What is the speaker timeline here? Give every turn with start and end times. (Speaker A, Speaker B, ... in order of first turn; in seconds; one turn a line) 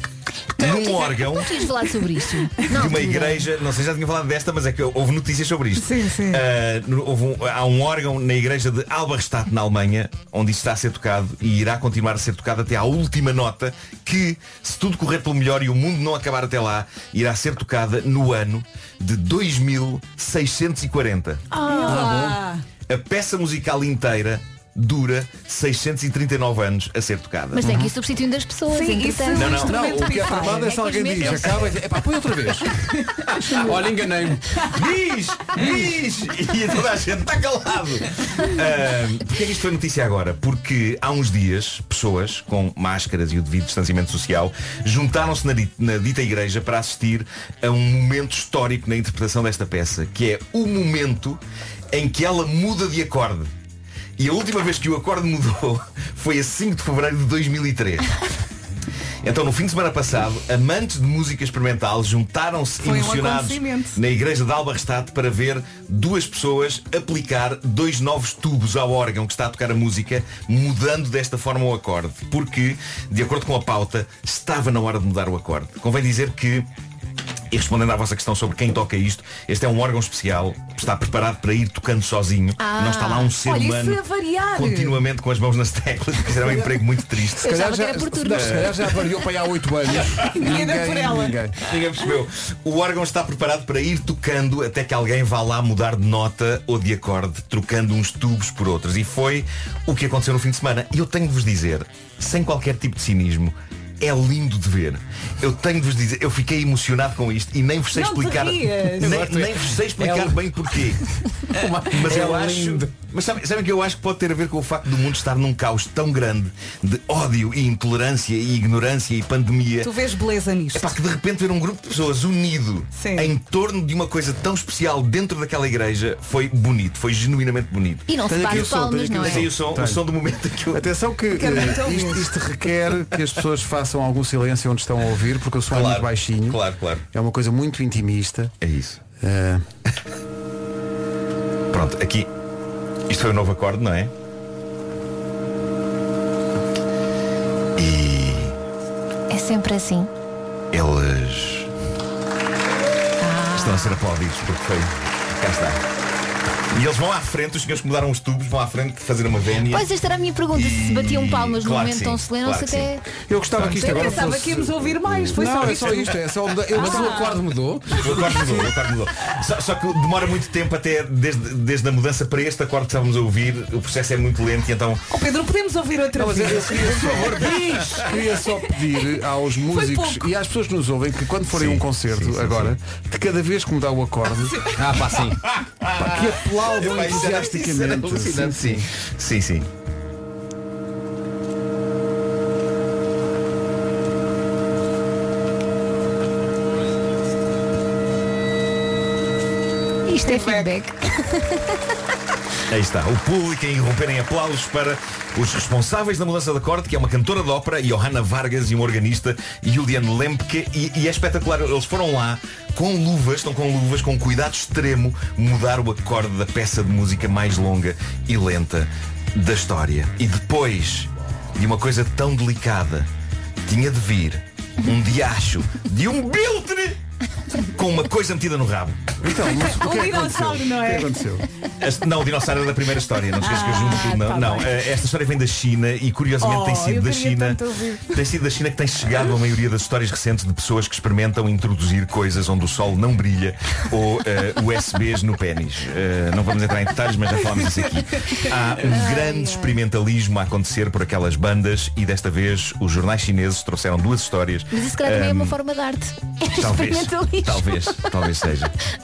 Speaker A: 0.6-1.6
Speaker B: 0.6-3.5
Speaker A: 2.7-21.4
Speaker C: 5.8-6.5
Speaker C: 21.5-22.6
Speaker D: 21.9-22.4
Speaker A: 22.9-27.8
Speaker B: 27.5-29.9
Speaker D: 27.6-27.9
Speaker C: 28.7-31.4
Speaker A: 29.3-30.2
Speaker D: 29.6-32.8
Speaker B: 30.5-31.6
Speaker C: 32.9-33.6
Speaker E: 33.5-34.6
Speaker A: 34.7-51.4
Speaker A: 51.9-53.5
Speaker A: 54.2-58.2
Speaker A: 59.2-76.7
Speaker C: 62.8-64.0
Speaker A: 77.5-84.0
Speaker B: 82.6-83.4
Speaker C: 83.4-85.0
Speaker A: 84.5-87.6
Speaker B: 87.4-89.1
Speaker D: 87.4-91.6
Speaker A: 88.3-89.0
Speaker C: 90.2-91.4
Speaker A: 91.6-111.0
Speaker C: 107.9-109.3
Speaker E: 109.0-110.5
Speaker E: 111.5-112.9
Speaker A: 111.8-119.9
Speaker C: 119.8-120.9
Speaker A: 120.7-130.9
Speaker C: 122.9-123.3
Speaker B: 128.1-129.5
Speaker D: 128.2-130.0
Speaker D: 130.7-138.5
Speaker C: 131.3-132.3
Speaker A: 135.7-137.0
Speaker A: 138.6-139.0
Speaker D: 139.2-139.6
Speaker A: 141.7-142.3
Speaker A: 143.1-144.1
Speaker A: 147.8-148.6
Speaker B: 149.3-150.1
Speaker A: 150.7-151.7
Speaker B: 153.2-154.1
Speaker A: 153.5-155.8
Speaker A: 156.7-159.9
Speaker B: 159.7-164.3
Speaker A: 160.5-162.9
Speaker D: 163.3-168.7
Speaker A: 163.5-164.2
Speaker C: 163.8-166.2
Speaker E: 166.7-168.2
Speaker C: 166.8-167.4
Speaker A: 168.0-175.0
Speaker C: 175.1-177.4
Speaker D: 176.1-184.7
Speaker C: 179.7-180.3
Speaker A: 181.5-182.8
Speaker C: 184.4-184.8
Speaker E: 184.8-185.4
Speaker A: 185.5-189.7
Speaker D: 185.9-188.9
Speaker B: 200.1-202.0
Speaker C: 200.2-200.7
Speaker A: 202.7-223.1
Speaker A: 223.7-227.0
Speaker A: 227.7-229.2
Speaker D: 229.2-231.4
Speaker C: 229.5-231.1
Speaker A: 231.8-255.6
Speaker C: 233.4-234.9
Speaker C: 236.4-238.2
Speaker C: 248.2-248.4
Speaker B: 248.8-249.8
Speaker B: 254.7-258.4
Speaker A: 256.5-258.7